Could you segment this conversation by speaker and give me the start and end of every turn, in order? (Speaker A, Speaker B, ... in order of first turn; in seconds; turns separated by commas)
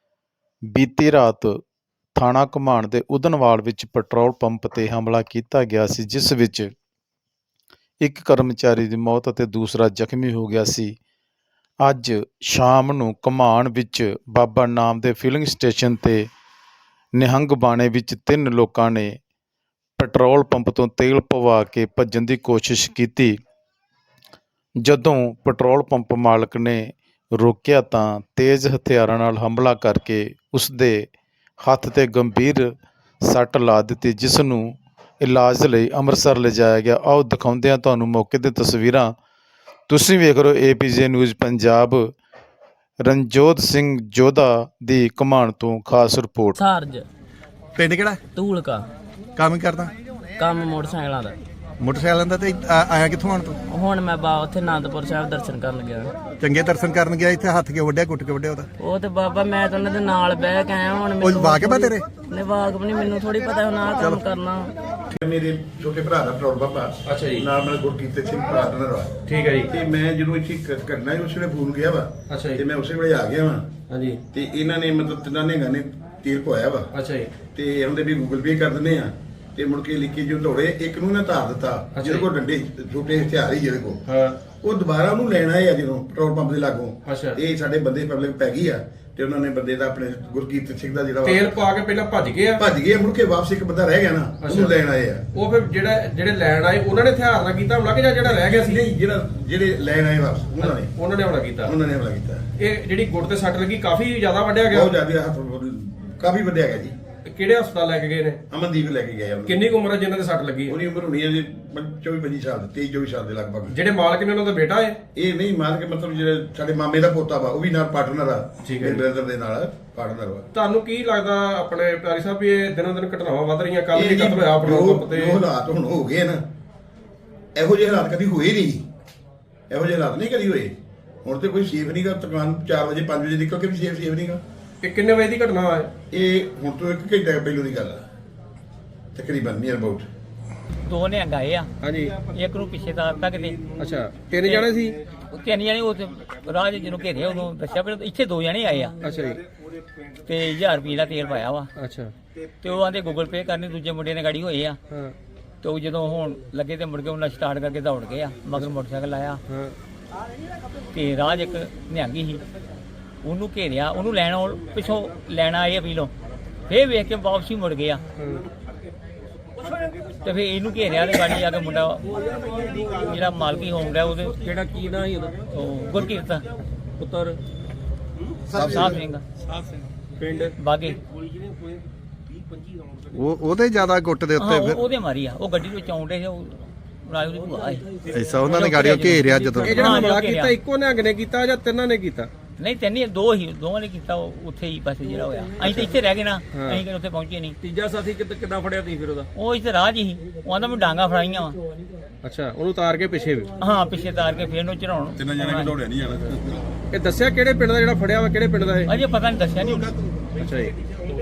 Speaker A: 0.7-1.6, Speaker A: 2.1-6.7, Speaker A: 8.0-10.9, Speaker A: 11.8-16.2, Speaker A: 17.1-19.2, Speaker A: 20.0-23.3, Speaker A: 24.8-31.1, Speaker A: 31.6-32.7, Speaker A: 33.2-39.1, Speaker A: 39.9-42.1, Speaker A: 43.0-46.6, Speaker B: 46.6-47.0, Speaker C: 47.8-48.2, Speaker B: 48.3-48.9, Speaker C: 49.4-49.9, Speaker B: 50.4-51.4, Speaker C: 51.8-53.6, Speaker B: 53.7-56.1, Speaker C: 56.4-58.7, Speaker B: 58.8-64.7, Speaker C: 61.2-62.0, Speaker D: 65.2-69.1, Speaker E: 67.1-67.5, Speaker E: 69.3-69.7, Speaker D: 69.7-73.7, Speaker E: 72.3-72.6, Speaker E: 73.9-74.2, Speaker D: 74.3-76.9, Speaker E: 76.9-77.3, Speaker D: 77.5-84.0, Speaker E: 82.0-82.3, Speaker E: 84.1-84.4, Speaker D: 84.6-91.5, Speaker E: 87.1-87.4, Speaker E: 91.2-92.7, Speaker D: 92.6-95.2, Speaker E: 94.4-94.8, Speaker E: 95.3-98.8, Speaker D: 98.3-100.9, Speaker E: 100.6-101.7, Speaker D: 101.6-102.4, Speaker E: 102.6-105.0, Speaker D: 104.7-107.0, Speaker E: 107.3-108.4, Speaker D: 108.5-109.6, Speaker E: 109.5-110.8, Speaker D: 110.7-113.8, Speaker E: 113.7-115.0, Speaker D: 115.2-120.5, Speaker E: 118.7-119.0, Speaker E: 120.5-125.4, Speaker D: 123.9-126.4, Speaker D: 127.5-128.8, Speaker D: 129.7-130.7, Speaker D: 131.2-134.4, Speaker E: 134.8-135.9, Speaker D: 136.1-138.0, Speaker D: 139.2-140.1, Speaker F: 140.8-141.7, Speaker E: 141.8-142.2, Speaker F: 142.2-143.6, Speaker E: 143.8-145.0, Speaker F: 145.3-149.0, Speaker E: 149.0-149.4, Speaker F: 150.3-151.7, Speaker E: 151.8-152.1, Speaker F: 152.6-154.8, Speaker F: 155.6-159.4, Speaker E: 159.5-159.8, Speaker F: 160.9-162.4, Speaker F: 163.2-166.1, Speaker F: 166.7-168.0, Speaker F: 170.2-172.1, Speaker F: 172.9-174.4, Speaker E: 174.4-175.4, Speaker F: 175.5-176.4, Speaker E: 177.0-177.4, Speaker C: 178.5-179.0, Speaker D: 178.6-178.9, Speaker F: 178.6-179.2, Speaker E: 180.2-180.5, Speaker F: 180.6-181.0, Speaker C: 183.1-184.8, Speaker F: 184.4-190.6, Speaker C: 188.1-189.9, Speaker E: 189.7-192.3, Speaker F: 192.6-197.6, Speaker E: 195.7-195.9, Speaker E: 196.5-196.8, Speaker E: 197.6-199.3, Speaker F: 199.4-201.6, Speaker E: 202.2-203.5, Speaker F: 203.6-205.7, Speaker D: 205.2-206.5, Speaker E: 206.9-208.9, Speaker F: 208.9-210.0, Speaker E: 210.4-210.7